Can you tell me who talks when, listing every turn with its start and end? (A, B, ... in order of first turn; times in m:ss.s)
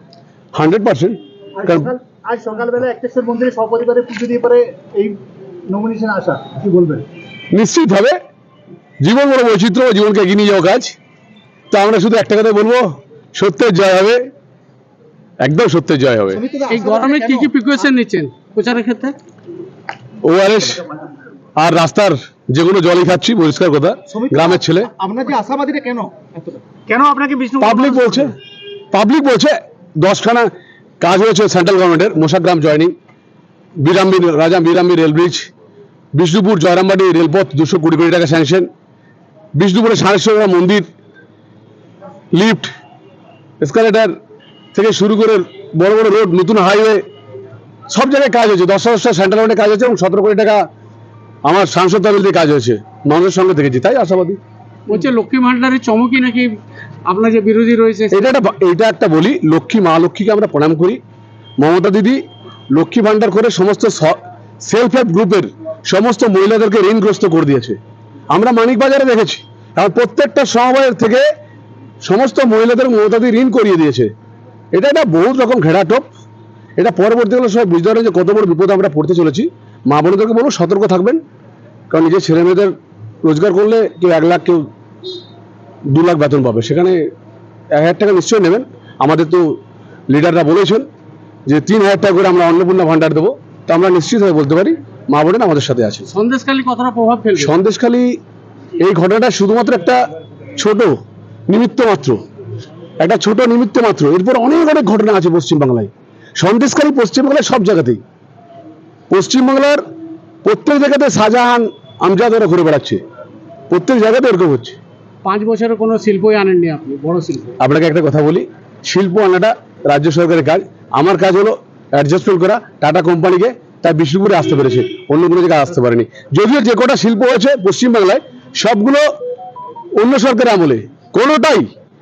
0:00.5-0:01.9 A
0:01.6-0:07.0 B
0:07.5-0:08.2 A
0:09.0-0:10.9 A
0:11.7-0:14.2 A
0:15.4-0:16.4 A
0:16.3-0:17.8 B
0:16.7-0:19.2 C
0:20.2-0:20.8 A
0:21.6-0:24.9 A
0:24.1-0:26.8 B
0:26.9-0:28.3 C
0:27.6-0:28.3 A
0:28.9-0:30.5 A
0:31.0-0:32.9 A
0:33.8-0:35.5 A
0:36.1-0:38.7 A
0:39.6-0:40.9 A
0:42.3-0:42.7 A
0:43.6-0:44.1 A
0:44.7-0:47.0 A
0:47.9-0:50.6 A
0:51.4-0:54.4 A
0:54.9-0:56.5 C
0:57.1-0:58.4 C
0:58.1-1:01.0 A
1:01.6-1:02.2 A
1:02.7-1:07.8 A
1:08.3-1:11.2 A
1:12.0-1:14.1 A
1:14.7-1:16.1 A
1:16.8-1:21.2 A
1:21.9-1:24.6 A
1:25.9-1:27.0 A
1:27.7-1:29.5 A
1:30.1-1:30.8 A
1:31.5-1:36.1 A
1:36.1-1:37.5 C
1:37.4-1:38.1 A
1:38.8-1:40.0 A
1:40.6-1:40.9 A
1:41.5-1:42.2 A
1:43.0-1:48.0 A
1:49.1-1:49.8 A
1:50.4-1:53.0 A
1:53.7-1:54.8 A
1:55.2-1:57.5 C
1:57.6-2:09.0 A
2:10.0-2:11.7 A